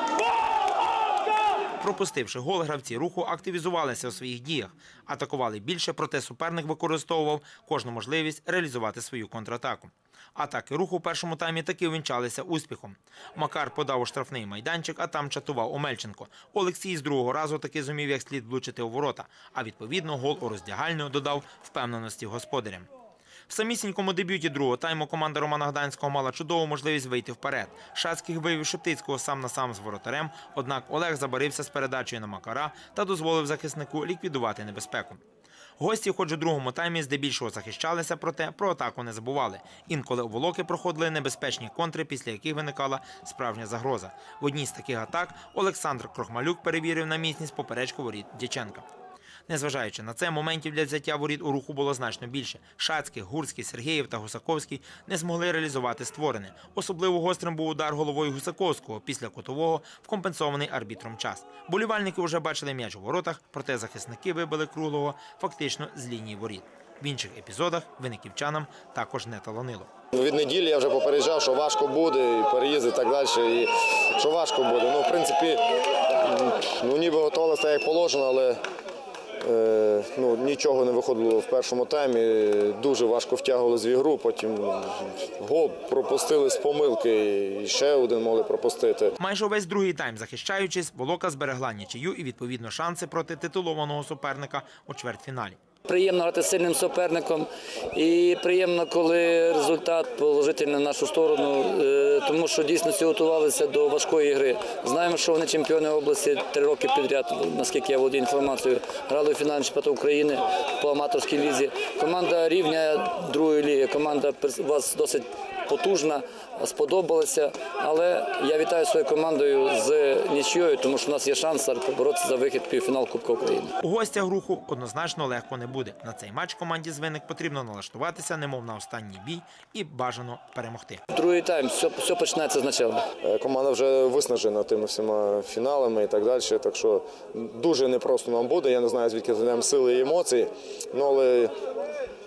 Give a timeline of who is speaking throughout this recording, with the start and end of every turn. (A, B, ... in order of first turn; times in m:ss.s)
0:01.8-0:22.9 A
0:23.5-0:35.2 A
0:35.8-0:48.8 A
0:49.5-1:09.9 A
1:10.1-1:15.6 B
1:16.2-1:18.6 B
1:19.4-1:29.2 B
1:29.2-1:35.6 A
1:35.9-2:03.8 C
2:03.8-2:11.0 A
2:11.1-2:13.1 C
2:13.2-2:21.5 B